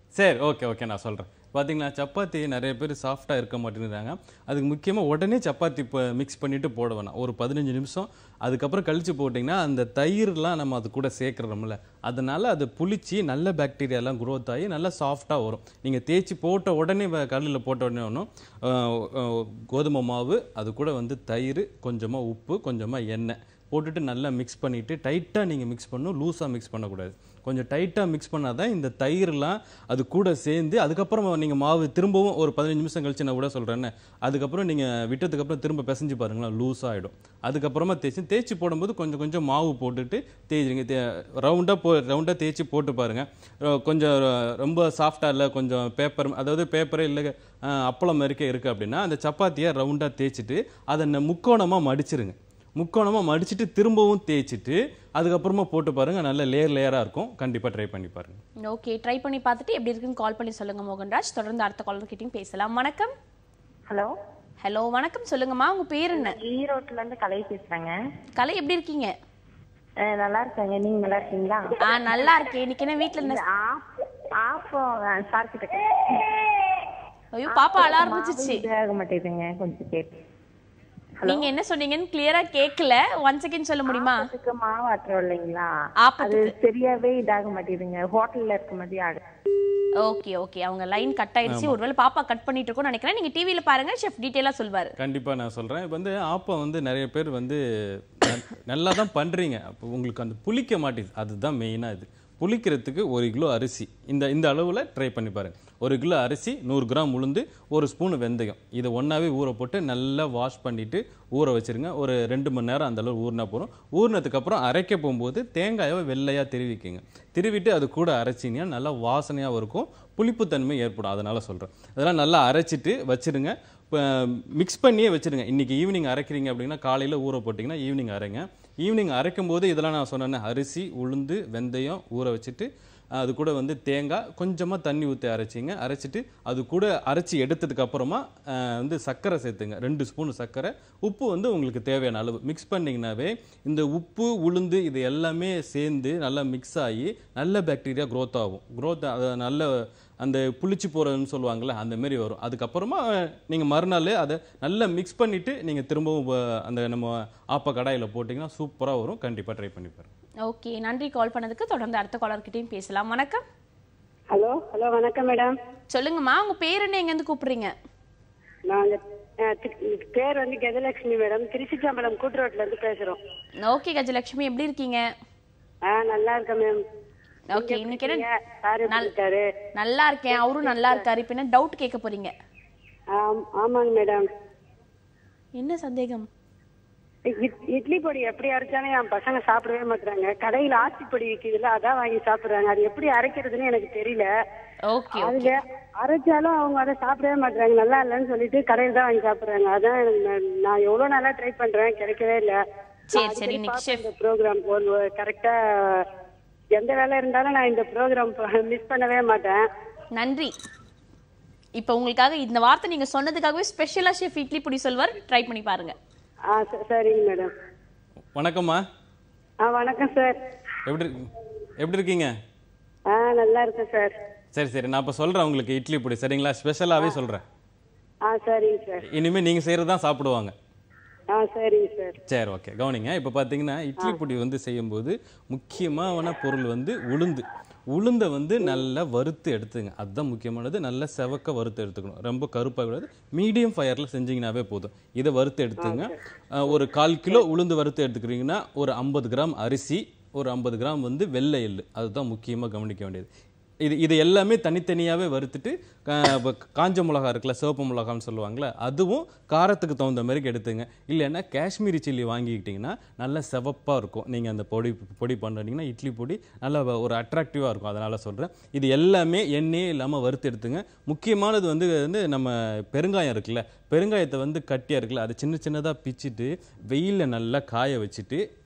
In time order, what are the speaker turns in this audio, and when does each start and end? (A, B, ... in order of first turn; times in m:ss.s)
0:00.1-0:58.4 A
0:58.6-1:03.1 B
1:04.6-1:06.4 B
1:06.1-1:07.9 C
1:08.4-1:09.1 B
1:10.1-1:11.8 C
1:11.8-1:13.4 B
1:13.2-1:13.8 C
1:14.4-1:16.2 C
1:17.4-1:18.6 B
1:17.5-1:20.1 C
1:21.2-1:21.5 C
1:21.2-1:24.3 B
1:23.9-1:25.7 C
1:26.0-1:26.5 B
1:26.2-1:29.2 C
1:30.0-1:34.9 B
1:31.5-1:31.7 A
1:35.0-2:40.1 A
2:40.4-2:43.4 B
2:44.3-2:45.5 D
2:45.9-2:47.7 B
2:48.7-2:53.2 D
2:53.6-2:55.0 B
2:55.9-2:56.8 D
2:57.5-2:58.2 B
2:57.6-2:59.4 D
2:59.8-3:02.3 B
3:00.3-3:01.0 D
3:03.2-3:04.2 D
3:05.6-3:06.3 B
3:07.3-3:14.3 D
3:14.9-3:15.5 B
3:15.1-3:26.0 D
3:23.1-3:24.0 B
3:26.8-3:29.6 D
3:30.2-3:30.5 B
3:31.8-3:35.9 B
3:36.5-3:37.5 D
3:38.4-3:38.8 A
3:39.6-3:40.4 D
3:40.8-3:41.3 A
3:41.8-3:42.3 A
3:43.1-3:44.1 D
3:44.6-3:47.4 A
3:48.3-3:49.0 D
3:49.0-3:50.6 A
3:51.4-3:52.2 D
3:52.3-4:13.3 A
4:05.8-4:06.1 D
4:06.7-4:07.4 D
4:13.8-4:38.4 A